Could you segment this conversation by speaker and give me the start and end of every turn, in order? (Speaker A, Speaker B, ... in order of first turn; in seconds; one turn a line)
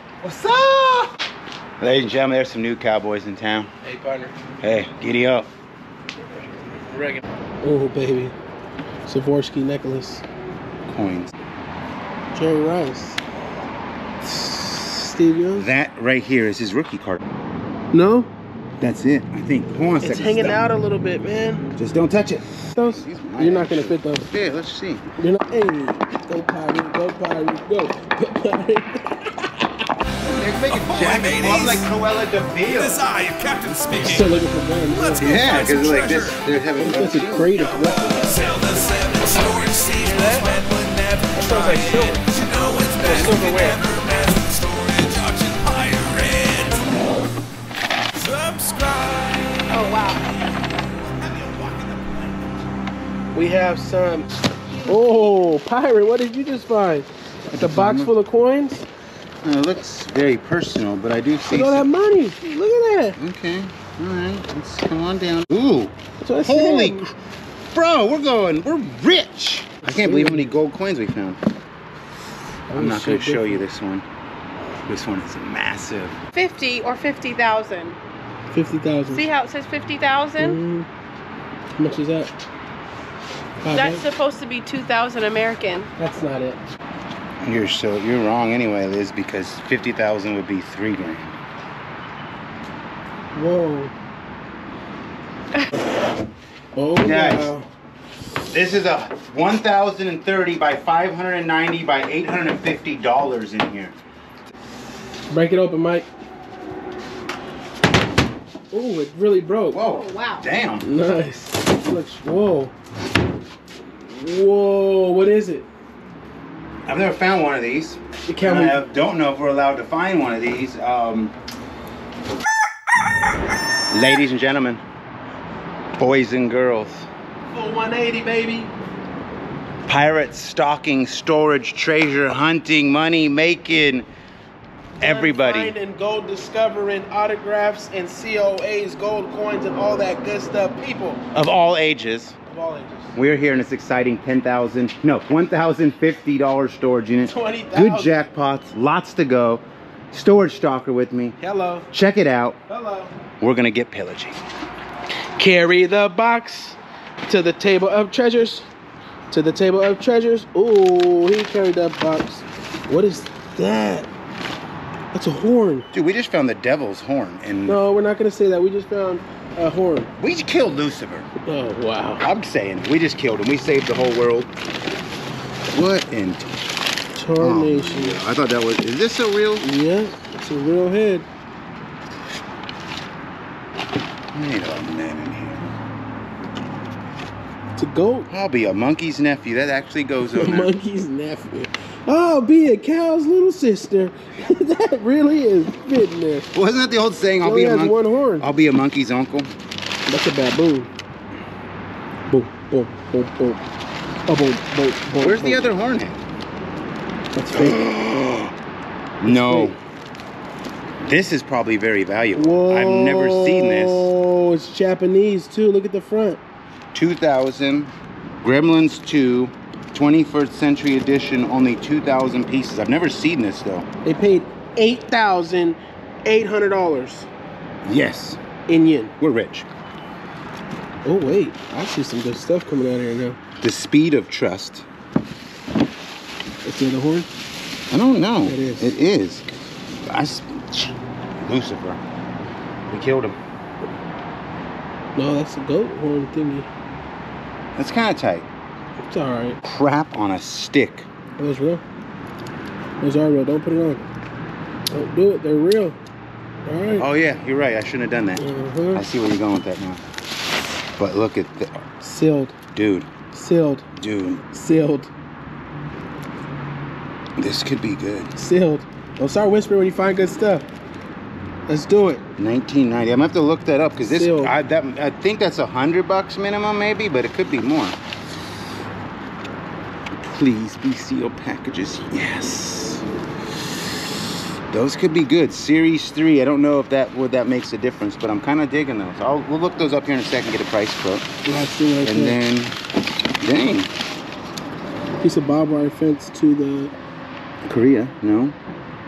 Speaker A: 0.2-1.1
Speaker A: 1.8-3.7
Speaker B: 3.8-4.3
Speaker A: 4.6-5.5
Speaker B: 6.8-8.3
Speaker B: 9.1-10.2
Speaker A: 10.9-11.3
Speaker B: 12.3-13.2
Speaker B: 14.3-15.7
Speaker A: 15.5-17.2
Speaker B: 17.9-18.3
Speaker A: 18.8-20.6
Speaker B: 20.0-21.7
Speaker A: 21.8-25.1
Speaker B: 22.7-24.3
Speaker B: 25.2-29.5
Speaker A: 30.2-33.0
Speaker C: 30.7-31.9
Speaker C: 32.6-36.5
Speaker B: 34.0-35.4
Speaker A: 35.2-37.6
Speaker B: 36.8-38.8
Speaker C: 37.5-47.1
Speaker B: 41.3-42.2
Speaker B: 42.9-43.8
Speaker C: 48.1-49.7
Speaker D: 49.7-50.3
Speaker A: 51.4-52.2
Speaker B: 53.3-54.3
Speaker B: 54.9-58.9
Speaker A: 57.5-58.1
Speaker A: 59.4-61.9
Speaker B: 61.5-63.2
Speaker A: 63.2-67.1
Speaker B: 66.2-67.1
Speaker A: 67.7-71.4
Speaker B: 69.8-70.5
Speaker B: 72.7-73.6
Speaker A: 72.7-74.0
Speaker A: 74.8-76.2
Speaker D: 76.3-78.0
Speaker B: 78.5-79.2
Speaker D: 79.1-80.6
Speaker B: 80.4-80.9
Speaker B: 81.8-82.3
Speaker B: 83.6-84.0
Speaker D: 83.7-85.9
Speaker B: 86.0-86.6
Speaker A: 87.4-91.4
Speaker B: 93.3-93.9
Speaker B: 96.8-97.7
Speaker A: 97.0-97.5
Speaker A: 98.5-104.0
Speaker B: 105.3-106.1
Speaker B: 108.7-109.8
Speaker A: 109.7-110.9
Speaker D: 109.8-110.4
Speaker B: 110.8-112.7
Speaker B: 114.0-115.7
Speaker A: 116.8-121.3
Speaker B: 118.3-118.8
Speaker A: 123.9-124.8
Speaker A: 125.9-127.1
Speaker B: 127.5-128.7
Speaker A: 129.8-134.1
Speaker B: 135.0-141.2
Speaker A: 135.0-135.7
Speaker A: 141.3-142.3
Speaker B: 142.4-143.2
Speaker A: 143.1-151.4
Speaker B: 147.2-148.3
Speaker B: 151.4-151.9
Speaker A: 151.9-152.6
Speaker B: 152.7-153.1
Speaker A: 153.4-154.4
Speaker B: 155.4-158.7
Speaker B: 159.3-164.1
Speaker B: 165.1-165.9
Speaker A: 165.9-167.8
Speaker B: 167.7-170.1
Speaker A: 170.2-171.3
Speaker B: 171.4-172.2
Speaker A: 172.2-174.5
Speaker A: 175.7-176.4
Speaker B: 177.2-178.2
Speaker A: 177.4-179.7
Speaker B: 179.6-181.3
Speaker A: 184.3-185.7
Speaker B: 187.8-188.3
Speaker A: 188.3-190.7
Speaker B: 190.3-196.5
Speaker A: 196.5-199.5
Speaker B: 197.4-198.5
Speaker B: 200.1-200.9
Speaker B: 202.3-203.6
Speaker B: 204.2-205.7
Speaker A: 205.2-206.2
Speaker B: 207.3-207.8
Speaker A: 207.5-208.5
Speaker A: 209.2-209.8
Speaker B: 209.2-209.7
Speaker A: 211.0-214.1
Speaker B: 212.3-216.4
Speaker A: 216.9-223.8
Speaker B: 224.0-227.3
Speaker A: 227.8-228.4
Speaker B: 228.7-229.1
Speaker A: 229.2-229.7
Speaker B: 231.0-233.4
Speaker A: 233.6-234.8
Speaker B: 236.6-237.3
Speaker A: 237.9-239.5
Speaker B: 238.4-238.9
Speaker A: 240.0-242.0
Speaker A: 242.9-243.3
Speaker B: 245.2-246.7
Speaker A: 247.8-248.5
Speaker B: 249.1-249.6
Speaker A: 249.6-251.1
Speaker B: 251.4-251.8
Speaker B: 253.0-254.0
Speaker B: 254.9-256.0
Speaker B: 256.6-257.1
Speaker A: 256.9-260.0
Speaker B: 258.4-259.0
Speaker A: 261.0-261.8
Speaker B: 262.0-262.6
Speaker A: 262.7-263.1
Speaker B: 263.3-263.9
Speaker A: 263.9-264.4
Speaker B: 264.5-265.1
Speaker A: 267.4-268.3
Speaker B: 268.4-270.7
Speaker B: 271.7-272.2
Speaker A: 272.4-278.0
Speaker B: 274.0-274.5
Speaker A: 280.3-283.0
Speaker A: 284.7-291.3
Speaker B: 291.4-292.4
Speaker A: 292.0-292.8
Speaker A: 293.4-293.9
Speaker B: 295.2-296.9
Speaker A: 297.6-298.6